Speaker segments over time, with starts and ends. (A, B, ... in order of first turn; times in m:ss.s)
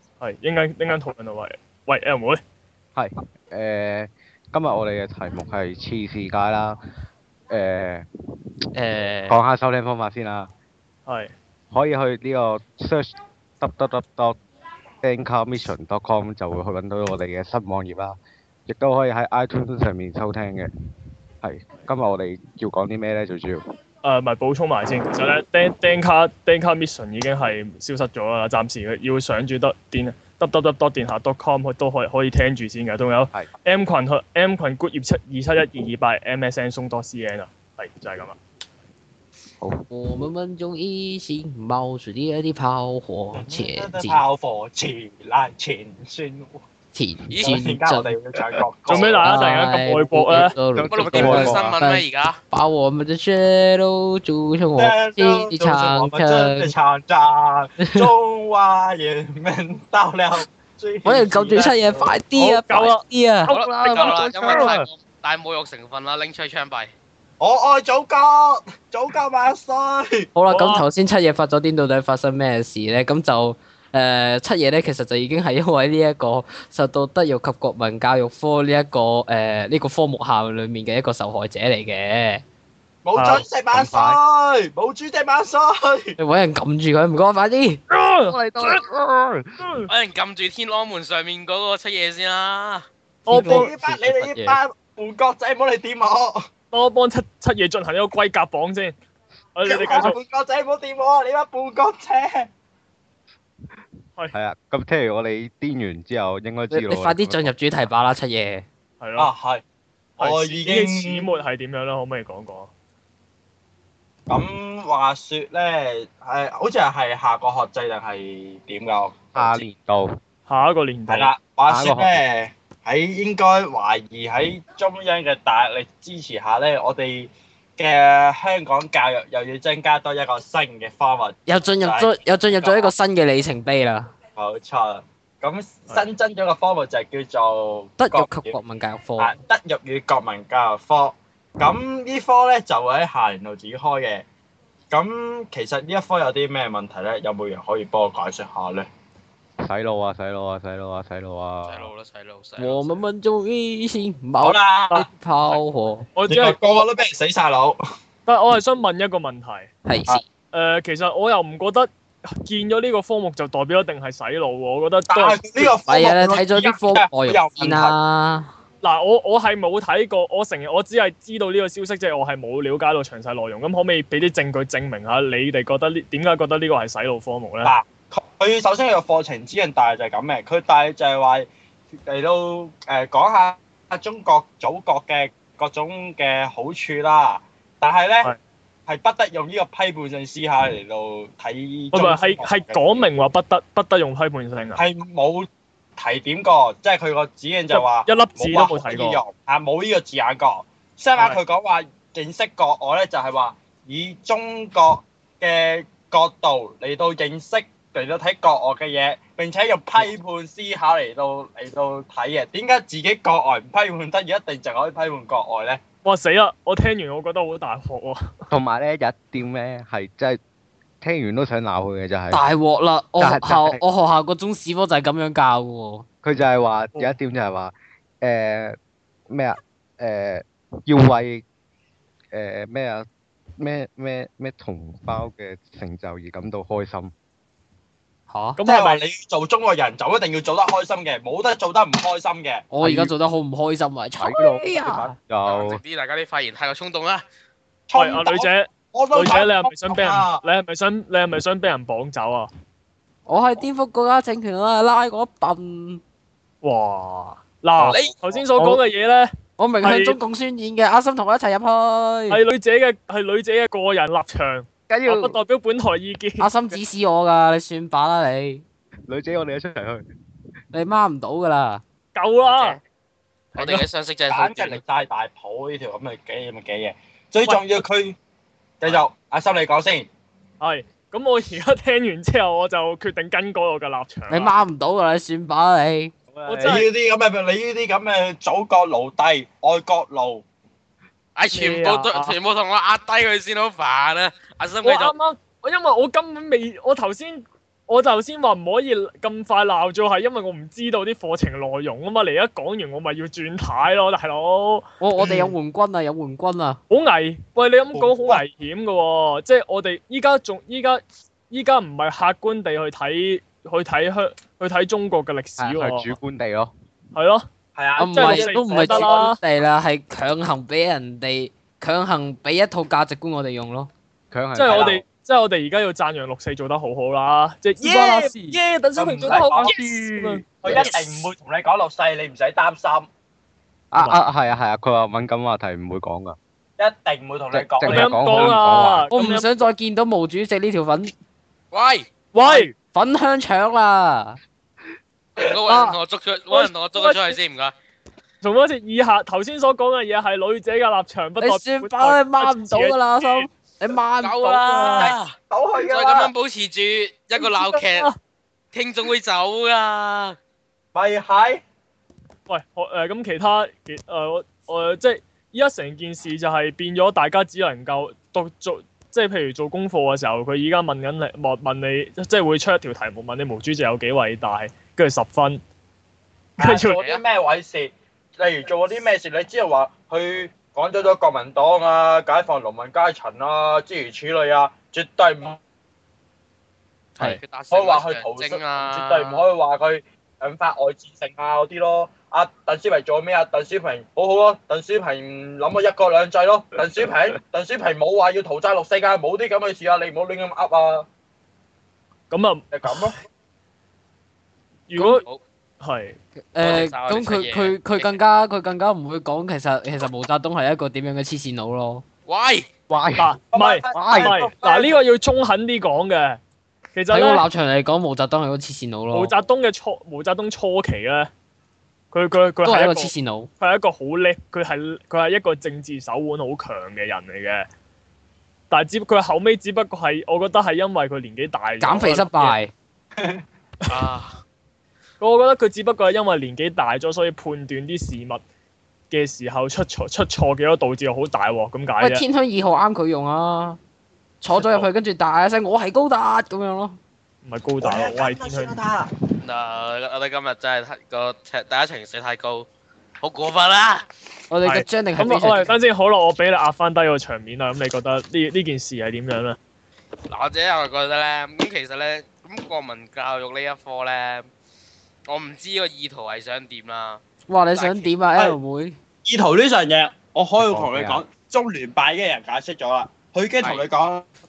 0:00.2-0:02.4 A
0:03.0-0:06.8 B
0:07.5-0:08.1 B
0:08.8-0:09.4 C
0:09.3-0:10.5 B
0:11.1-0:11.3 A
0:11.7-0:14.4 B
0:15.0-0:20.7 B
0:21.4-0:23.6 B
0:24.0-0:38.4 A
0:39.6-0:40.3 B
0:39.9-0:44.2 D
0:43.4-0:46.6 E
0:46.9-0:48.2 D
0:47.3-0:47.6 C
0:47.5-0:49.6 E
0:48.9-0:50.5 A
0:48.9-0:56.7 D
0:50.7-0:51.7 B
0:50.9-0:52.4 C
0:54.8-1:02.2 E
0:57.8-0:58.1 D
1:01.0-1:04.1 D
1:02.4-1:04.7 A
1:03.5-1:06.9 C
1:04.0-1:04.9 B
1:07.4-1:10.3 E
1:10.4-1:22.4 D
1:10.5-1:10.8 A
1:23.0-1:26.2 E
1:23.2-1:23.5 A
1:23.7-1:24.2 B
1:26.2-1:27.8 D
1:27.9-1:28.8 A
1:28.3-1:29.6 B
1:29.6-1:29.9 A
1:29.9-1:32.9 C
1:33.3-1:33.7 A
1:33.3-1:34.6 D
1:33.3-1:36.5 E
1:36.7-1:39.0 A
1:39.6-1:40.2 A
1:39.6-1:42.5 E
1:44.3-1:47.5 B
1:46.7-1:48.6 D
1:49.0-1:49.3 A
1:49.2-1:49.6 E
1:50.2-1:51.2 E
1:50.2-1:52.7 A
1:54.3-1:59.6 E
1:59.4-2:00.2 B
2:00.5-2:01.3 A
2:01.1-2:12.9 E
2:01.7-2:02.2 B
2:11.5-2:14.1 D
2:14.4-2:18.6 E
2:18.0-2:19.3 D
2:19.2-2:24.2 E
2:24.9-2:28.9 E
2:29.6-2:31.9 B
2:31.7-2:33.0 C
2:32.6-2:36.1 D
2:34.4-2:35.1 E
2:36.2-2:36.6 A
2:36.3-2:37.8 E
2:38.3-2:39.7 A
2:39.9-2:40.2 D
2:40.5-2:41.9 A
2:42.4-2:45.7 A
2:45.1-2:48.0 E
2:45.8-2:48.5 D
2:48.8-2:57.7 A
2:57.6-3:01.5 E
3:02.0-3:08.3 E
3:08.9-3:13.1 E
3:11.9-3:14.8 A
3:14.8-3:35.8 E
3:17.7-3:19.2 A
3:36.0-3:38.3 A
3:38.5-3:40.4 B
3:41.0-3:42.4 B
3:42.3-3:46.1 D
3:43.2-3:43.8 B
3:46.2-3:48.8 B
3:49.3-3:51.4 B
3:52.3-3:53.0 B
3:53.6-3:57.1 B
3:58.3-3:58.6 D
3:58.6-3:59.0 A
3:58.6-4:02.7 E
4:02.7-4:05.1 D
4:02.8-4:03.1 B
4:04.2-4:05.8 B
4:05.4-4:07.3 C
4:07.9-4:10.4 E
4:08.0-4:12.5 A
4:13.3-4:16.0 D
4:16.6-4:20.2 A
4:17.8-4:18.2 C
4:19.6-4:22.4 D
4:22.3-4:26.8 A
4:24.9-4:25.3 B
4:26.4-4:28.6 D
4:29.1-4:30.0 B
4:30.7-4:31.8 D
4:32.2-4:32.8 A
4:32.5-4:32.8 C
4:33.5-4:33.8 A
4:33.6-4:34.8 C
4:34.3-4:38.2 E
4:37.4-4:37.8 A
4:38.8-4:40.1 E
4:40.6-4:44.5 A
4:44.3-4:46.1 D
4:46.3-4:46.8 B
4:46.5-4:46.9 A
4:46.6-4:50.4 E
4:51.4-4:55.1 C
4:51.5-4:52.4 A
4:54.8-5:04.8 A
5:05.0-5:06.8 D
5:05.2-5:05.5 E
5:06.9-5:16.2 A
5:07.9-5:08.4 E
5:15.6-5:16.7 B
5:17.1-5:17.5 A
5:17.8-5:19.2 E
5:18.0-5:23.9 D
5:18.1-5:19.4 A
5:24.3-5:25.0 B
5:24.6-5:30.4 A
5:24.7-5:25.0 E
5:27.8-5:28.4 E
5:29.0-5:29.8 E
5:29.3-5:30.9 B
5:30.6-5:33.1 E
5:33.9-5:36.4 B
5:36.8-5:38.6 E
5:37.5-5:39.1 B
5:37.8-5:39.7 A
5:39.1-5:41.1 D
5:41.7-5:42.1 C
5:42.3-5:42.7 A
5:42.5-5:44.4 D
5:45.4-5:47.7 C
5:46.5-5:47.4 A
5:48.4-5:53.5 A
5:51.4-5:55.0 D
5:54.2-5:58.1 C
5:54.5-5:55.1 A
5:55.0-5:56.3 E
5:57.4-5:58.2 A
5:58.7-6:00.4 C
6:00.9-6:01.6 E
6:02.5-6:15.6 A
6:16.6-6:25.6 E
6:16.6-6:17.0 A
6:27.2-6:29.4 C
6:27.7-6:41.1 E
6:42.3-6:43.0 A
6:42.7-6:43.2 E
6:44.9-6:45.2 A
6:45.0-6:45.4 C
6:45.8-6:46.2 A
6:46.6-6:52.0 D
6:46.6-6:48.2 C
6:52.3-6:52.7 C
6:52.9-6:53.3 B
6:53.2-6:56.4 A
6:53.5-6:55.0 E
6:53.9-6:54.5 B
6:56.9-6:57.5 A
6:57.1-6:59.3 D
6:59.1-7:01.3 A
7:02.1-7:07.7 A
7:02.6-7:03.5 D
7:08.7-7:12.6 A
7:11.8-7:12.7 D
7:13.2-7:13.4 E
7:13.9-7:14.4 C
7:15.2-7:18.4 A
7:19.1-7:22.2 A
7:22.0-7:23.8 D
7:24.4-7:27.0 D
7:24.6-7:24.9 A
7:27.4-7:28.8 A
7:27.8-7:29.1 E
7:29.4-7:32.7 C
7:33.2-7:34.0 C
7:34.5-7:35.8 D
7:34.6-7:39.6 A
7:40.3-7:44.5 C
7:45.3-7:47.2 C
7:47.5-7:49.0 D
7:47.7-7:48.1 C
7:49.2-7:54.3 E
7:50.6-7:51.2 B